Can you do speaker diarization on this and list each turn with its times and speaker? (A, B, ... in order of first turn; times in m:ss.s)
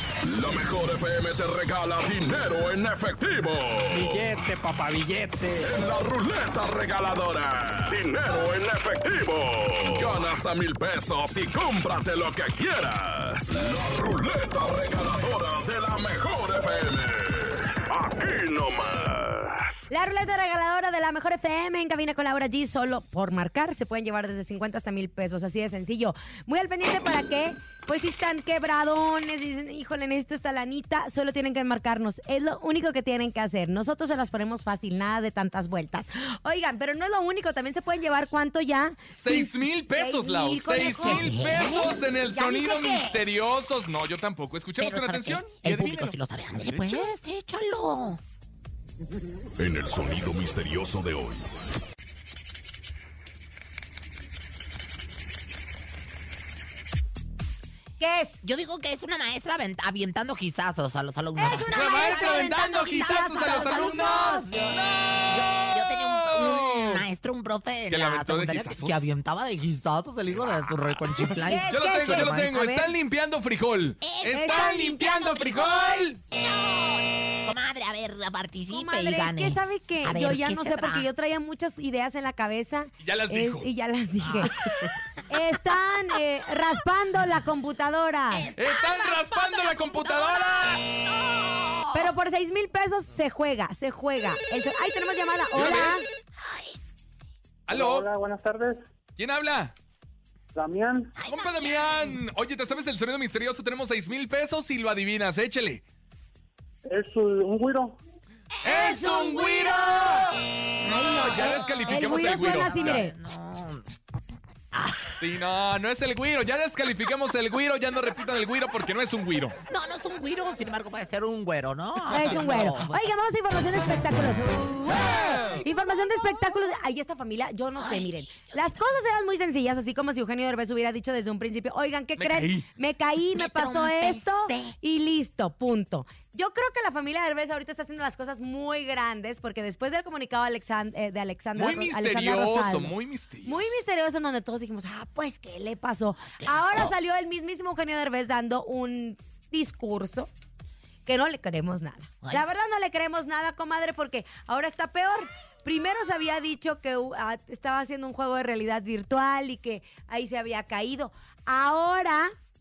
0:00.2-0:04.3 A
0:03.9-0:05.8 B
0:05.6-0:19.6 A
0:19.9-0:41.2 C
0:39.1-0:47.0 D
0:40.7-0:43.0 E
0:42.3-0:43.2 C
0:44.8-0:48.2 E
0:49.6-0:51.4 A
0:58.0-0:58.4 C
0:58.4-1:12.5 E
1:01.4-1:04.5 C
1:01.5-1:07.0 D
1:07.9-1:09.0 D
1:10.3-1:16.2 D
1:11.4-1:12.9 C
1:14.0-1:21.1 E
1:14.3-1:15.0 C
1:18.7-1:24.6 C
1:23.0-1:23.7 D
1:24.2-1:25.2 E
1:25.3-1:28.5 C
1:28.3-1:32.1 E
1:28.6-1:30.8 D
1:31.9-1:36.1 C
1:35.6-1:36.1 D
1:36.4-1:36.8 E
1:37.7-1:38.1 D
1:37.7-1:38.8 F
1:39.2-1:39.7 D
1:40.5-1:41.1 F
1:41.2-1:42.2 E
1:41.3-1:45.8 D
1:46.9-1:48.0 F
1:48.6-1:54.0 E
1:48.6-1:50.3 D
1:50.9-1:53.1 C
1:51.0-1:53.0 D
1:54.7-1:55.2 E
1:55.2-1:59.6 D
1:59.7-2:03.1 E
2:02.1-2:22.9 C
2:05.0-2:05.6 D
2:07.8-2:08.8 E
2:12.2-2:12.6 D
2:13.3-2:14.7 E
2:21.6-2:23.7 D
2:23.4-2:30.3 C
2:26.4-2:26.9 E
2:31.0-2:42.3 C